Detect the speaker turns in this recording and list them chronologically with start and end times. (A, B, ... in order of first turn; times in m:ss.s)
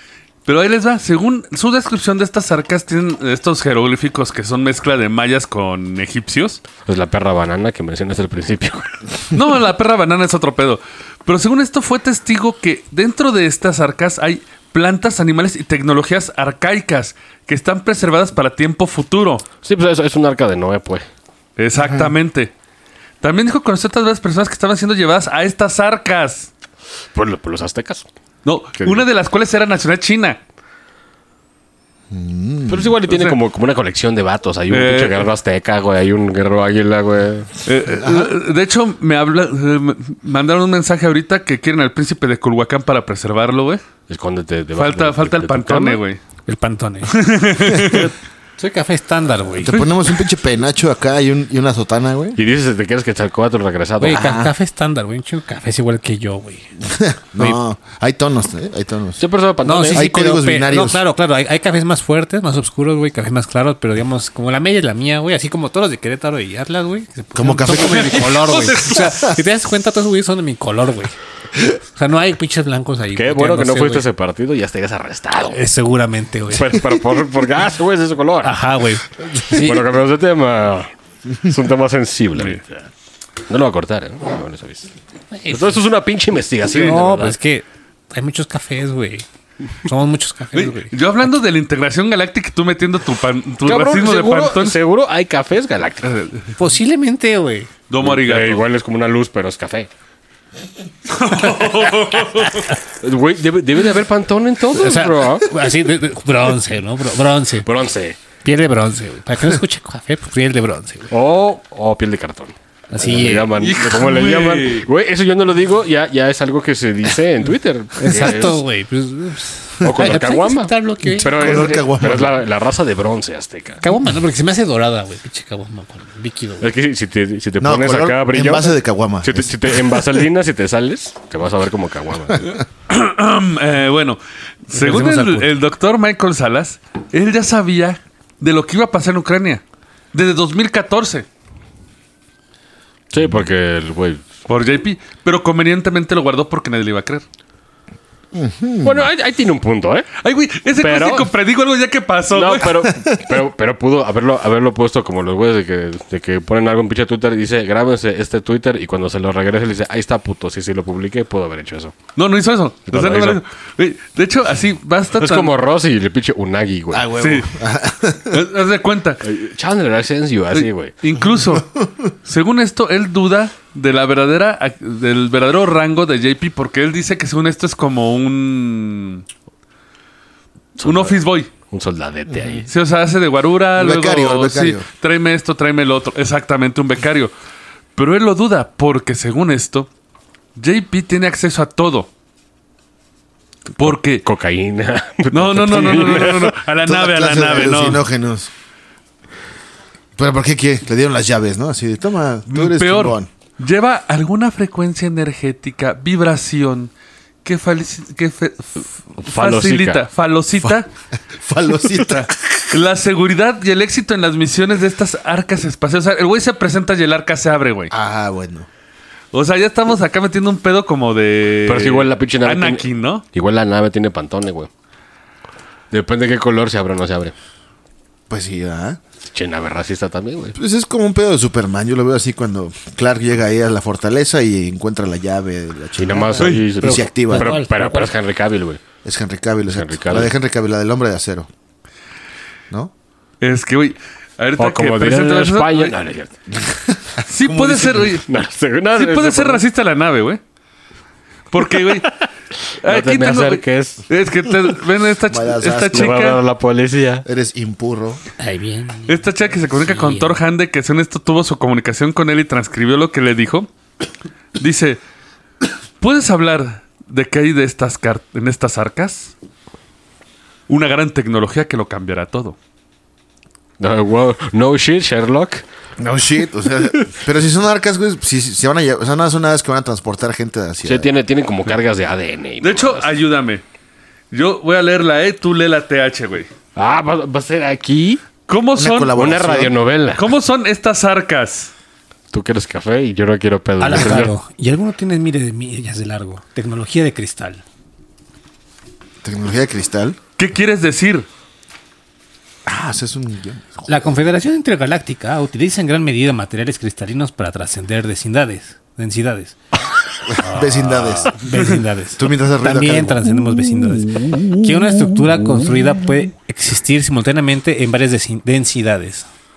0:00.4-0:06.6 A
0:06.8-0:08.9 B
0:09.3-0:19.4 A
0:19.6-0:21.1 B
0:21.6-0:22.5 A
0:23.2-0:26.5 A
0:27.1-0:28.0 B
0:28.4-0:30.4 A
0:28.8-0:29.0 B
0:32.1-0:33.0 C
0:32.7-0:37.5 B
0:33.1-0:33.4 A
0:34.7-0:35.3 A
0:37.6-0:43.8 A
0:37.9-0:38.3 C
0:44.1-0:46.0 B
0:44.8-0:46.2 A
0:46.5-0:47.2 D
0:47.1-0:48.1 A
0:47.7-0:48.0 C
0:48.6-0:49.8 D
0:49.6-0:52.4 C
0:49.7-0:50.1 A
0:52.4-0:54.3 B
0:54.0-0:56.7 D
0:54.1-0:54.5 C
0:56.8-0:59.2 C
0:59.2-1:00.0 B
0:59.6-1:11.1 D
0:59.9-1:01.0 C
1:07.3-1:09.4 C
1:07.8-1:08.9 A
1:11.7-1:14.0 D
1:13.1-1:15.6 B
1:15.5-1:16.7 D
1:16.5-1:18.6 B
1:18.4-1:19.9 D
1:19.5-1:22.6 B
1:22.3-1:22.6 A
1:23.5-1:24.9 B
1:25.3-1:25.8 D
1:25.5-1:27.4 B
1:26.7-1:29.2 D
1:29.8-1:30.9 D
1:30.5-1:34.8 A
1:33.6-1:36.1 B
1:36.0-1:36.4 A
1:36.6-1:37.7 D
1:37.9-1:38.6 A
1:38.0-1:39.9 B
1:41.1-1:42.7 A
1:42.9-1:45.5 B
1:44.7-1:47.6 D
1:47.6-1:48.2 B
1:48.4-1:51.1 D
1:51.1-1:58.6 B
1:52.9-1:53.6 D
1:53.6-1:54.9 A
1:58.0-2:01.7 D
1:59.8-2:00.2 C
1:59.8-2:03.8 B
2:01.1-2:02.4 C
2:03.8-2:06.7 D
2:06.6-2:12.5 B
2:07.6-2:10.0 C
2:12.9-2:19.6 A
2:14.7-2:15.5 D
2:20.1-2:21.2 A
2:23.1-2:24.2 B
2:24.5-2:27.2 A
2:28.3-2:29.1 C
2:28.8-2:30.1 B
2:30.2-2:33.0 A
2:30.8-2:31.3 B
2:32.3-2:41.9 B
2:32.8-2:33.4 C
2:42.2-2:45.6 A
2:42.9-2:43.4 B
2:45.2-2:47.1 B
2:46.9-2:48.4 C
2:47.2-2:47.5 A
2:48.3-2:49.2 A
2:49.2-2:50.9 B
2:50.5-2:51.7 A
2:51.5-2:51.9 C
2:52.2-2:59.2 A
3:00.8-3:01.2 B
3:00.8-3:01.5 A
3:01.7-3:02.7 B
3:02.3-3:02.6 C
3:02.7-3:07.3 A
3:03.8-3:04.8 C
3:08.0-3:09.9 A
3:10.6-3:12.1 A
3:13.8-3:14.2 A
3:13.8-3:16.6 B
3:15.3-3:18.0 A
3:16.8-3:18.5 C
3:20.2-3:23.3 C
3:22.5-3:26.9 A
3:27.4-3:30.9 A
3:29.2-3:30.0 B
3:31.3-3:32.6 C
3:32.0-3:37.9 A
3:37.9-3:38.7 C
3:39.3-3:43.2 A
3:41.6-3:44.7 B
3:45.9-3:47.3 B
3:48.3-3:49.0 C
3:49.3-3:50.6 B
3:50.6-3:57.6 C
3:56.0-3:58.8 B
3:56.4-3:56.6 A
3:56.8-3:58.1 D
3:59.0-4:01.5 C
3:59.7-4:00.3 B
4:03.4-4:05.9 A
4:04.6-4:06.3 B
4:06.6-4:08.2 C
4:07.3-4:08.2 A
4:08.2-4:09.6 B
4:08.9-4:10.4 A
4:11.5-4:12.2 A
4:12.8-4:16.4 A
4:12.8-4:14.0 B
4:15.3-4:16.2 C
4:15.9-4:17.2 B
4:17.2-4:18.2 C
4:18.4-4:20.4 D
4:19.1-4:23.7 A
4:24.6-4:25.0 A
4:26.0-4:29.3 A
4:30.7-4:32.6 A
4:33.8-4:35.6 B
4:36.0-4:41.1 C
4:40.8-4:43.1 B
4:42.6-4:43.6 A
4:44.3-4:46.5 A
4:46.8-4:48.2 B
4:48.5-4:49.1 A
4:48.8-4:49.7 C
4:49.2-4:50.2 B
4:50.2-4:51.7 A
4:52.3-4:54.3 B
4:53.8-4:57.6 D
4:59.2-5:00.2 C
5:00.4-5:01.2 A
5:02.6-5:03.9 C
5:03.8-5:09.6 D
5:10.3-5:11.4 C
5:10.4-5:19.3 D
5:12.2-5:13.2 C